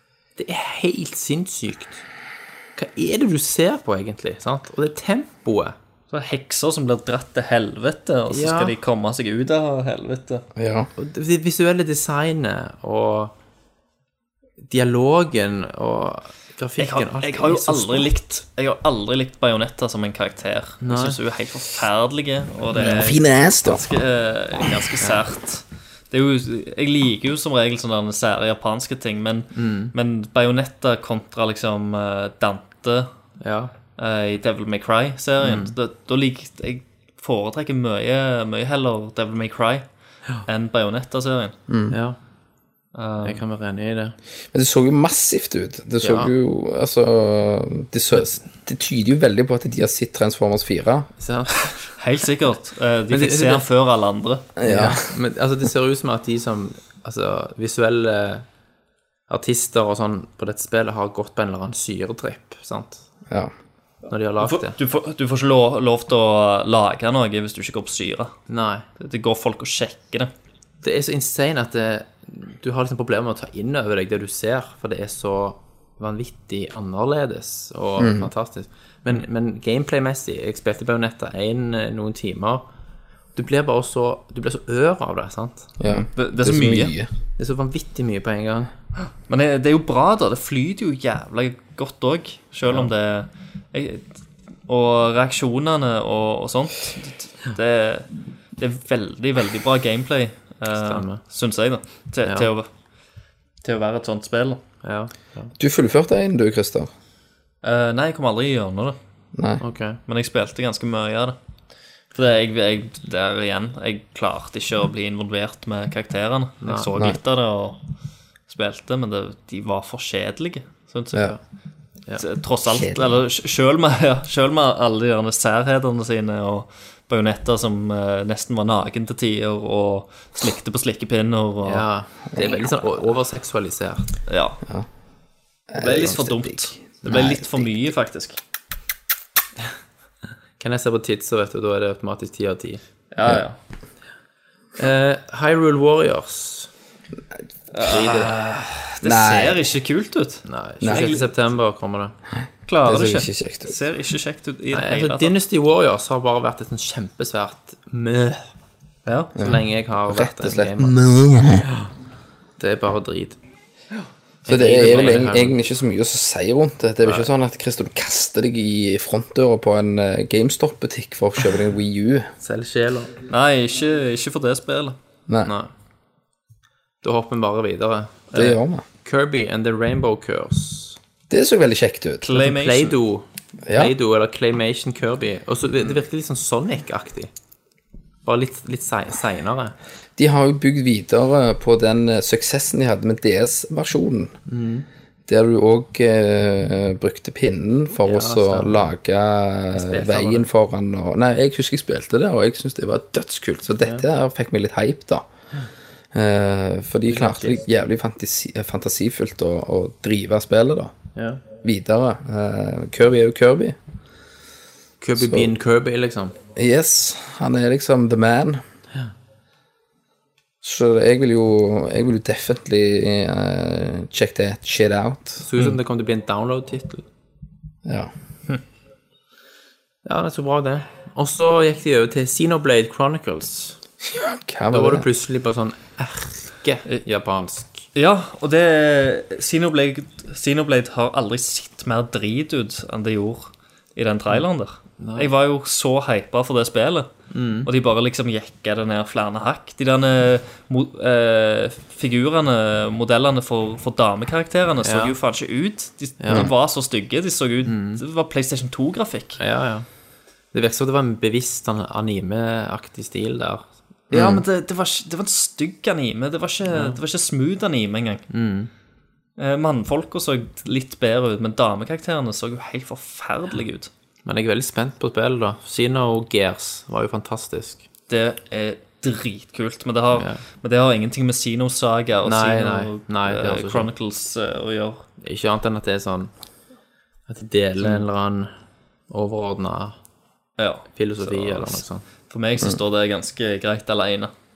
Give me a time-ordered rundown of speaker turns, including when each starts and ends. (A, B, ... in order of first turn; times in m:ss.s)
0:00.4-0:02.0 A
0:02.8-0:05.7 A
0:06.1-0:10.4 B
0:08.3-0:08.7 A
0:10.6-0:10.9 C
0:11.0-0:13.3 A
0:14.6-0:18.1 A
0:16.8-0:33.1 B
0:20.8-0:21.2 A
0:22.7-0:23.8 C
0:29.6-0:29.9 A
0:33.4-0:33.7 A
0:34.0-0:39.9 B
0:35.4-0:35.7 A
0:40.4-0:41.6 B
0:41.7-0:42.0 C
0:41.9-0:42.2 A
0:42.9-0:43.4 B
0:43.2-0:44.2 A
0:44.5-0:51.1 C
0:46.0-0:46.3 A
0:51.2-0:52.0 A
0:52.0-0:54.5 B
0:53.1-0:53.7 A
0:54.6-0:55.0 C
0:54.6-0:58.4 A
0:59.3-1:03.0 A
1:04.1-1:04.8 A
1:04.4-1:08.4 B
1:08.5-1:08.9 A
1:09.0-1:10.3 B
1:10.8-1:22.6 A
1:18.0-1:18.3 C
1:23.4-1:25.7 A
1:25.8-1:27.1 C
1:25.9-1:26.9 B
1:27.4-1:28.7 A
1:29.3-1:34.1 B
1:34.7-1:42.7 B
1:40.7-1:41.2 A
1:42.2-1:42.5 A
1:43.6-1:44.6 B
1:44.8-1:45.5 A
1:45.6-1:46.9 C
1:47.6-1:49.0 B
1:49.4-1:49.6 C
1:49.6-1:50.0 A
1:50.1-1:51.4 B
1:52.2-1:57.8 B
1:56.6-1:56.9 A
1:58.5-2:01.4 B
2:02.2-2:11.8 B
2:02.7-2:03.2 C
2:11.6-2:14.1 A
2:12.3-2:12.8 C
2:14.3-2:14.6 B
2:15.7-2:17.7 C
2:15.8-2:18.4 B
2:20.6-2:22.8 A
2:23.1-2:23.6 B
2:24.8-2:26.7 A
2:27.7-2:31.2 B
2:27.8-2:28.4 A
2:29.0-2:29.7 C
2:30.4-2:32.2 A
2:30.8-2:31.2 C
2:32.7-2:35.4 B
2:32.9-2:33.7 C
2:34.7-2:38.4 A
2:39.0-2:39.3 B
2:39.4-2:41.0 A
2:39.4-2:41.7 C
2:42.6-2:43.4 A
2:44.4-2:45.6 A
2:44.5-2:52.3 C
2:52.4-2:53.2 A
2:53.3-2:55.0 B
2:55.4-2:55.7 A
2:57.0-2:58.3 A
2:58.3-2:58.8 C
2:59.0-3:01.0 A
3:01.3-3:02.3 C
3:02.2-3:03.0 B
3:02.3-3:07.3 A
3:03.6-3:03.9 C
3:08.2-3:09.7 A
3:10.2-3:14.3 C
3:14.5-3:14.9 A
3:15.3-3:25.3 C
3:18.0-3:18.9 A
3:19.7-3:20.5 A
3:26.1-3:30.9 C
3:27.1-3:27.6 A
3:31.2-3:31.4 A
3:31.6-3:33.8 C
3:35.0-3:36.4 A
3:35.2-3:35.5 C
3:36.6-3:38.6 C
3:40.6-3:45.4 C
3:45.4-3:47.0 A
3:47.8-3:48.1 C
3:50.0-3:53.8 A
3:54.0-3:55.1 C
3:54.7-3:57.8 A
3:58.0-4:07.1 B
4:05.0-4:05.3 A
4:07.3-4:07.7 A
4:07.6-4:19.4 B
4:14.8-4:15.2 A
4:16.2-4:16.5 A
4:17.6-4:18.0 A
4:19.4-4:19.9 A
4:20.5-4:23.6 A
4:24.1-4:24.4 C
4:24.1-4:28.2 B
4:26.7-4:27.0 A
4:28.3-4:28.7 A
4:29.4-4:33.9 B
4:34.2-4:37.8 A
4:38.1-4:45.0 B
4:40.2-4:40.4 A
4:42.2-4:43.9 A
4:45.2-4:46.3 A
4:47.3-4:48.5 A
4:49.1-4:50.0 A
4:50.6-4:54.3 B
4:50.9-4:52.0 A